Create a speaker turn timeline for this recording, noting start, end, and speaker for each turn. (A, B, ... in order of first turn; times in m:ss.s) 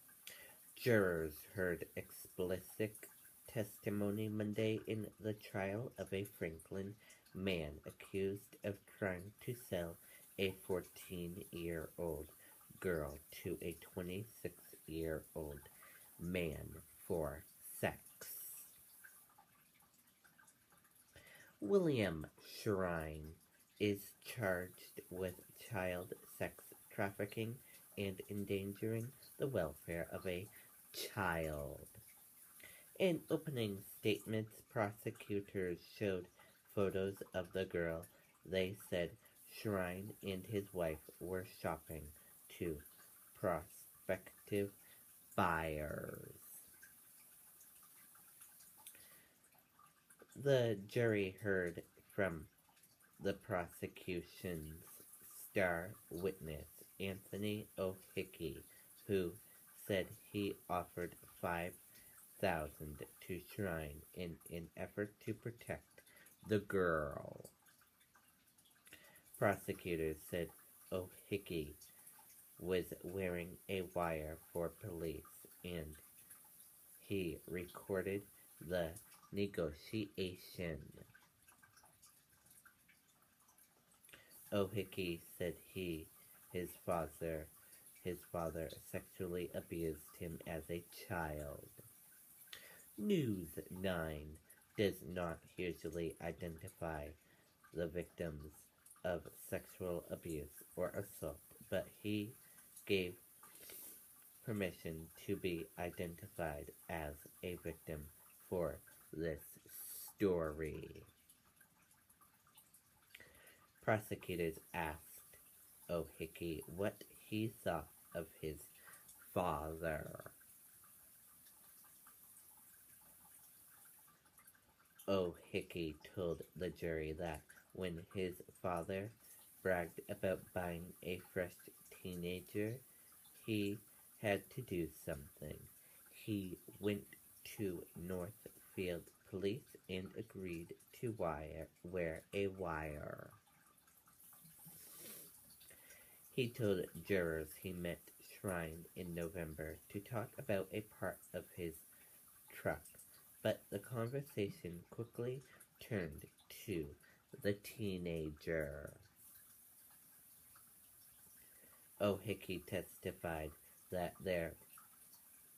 0:00.8-0:18.7 A
0:21.6-0:32.0 A
0:33.0-0:44.8 A
0:45.4-0:46.7 A
0:50.4-0:52.5 A
0:53.2-1:01.8 A
1:02.3-1:07.5 A
1:09.4-1:11.8 A
1:12.6-1:16.0 A
1:17.0-1:21.0 A
1:24.5-1:31.8 A
1:33.0-1:37.2 A
1:37.7-1:43.8 A
1:44.4-1:51.1 A
1:53.8-2:00.3 A
2:05.1-2:23.4 A
2:26.3-2:31.9 A
2:32.5-2:39.1 A
2:42.0-2:44.6 A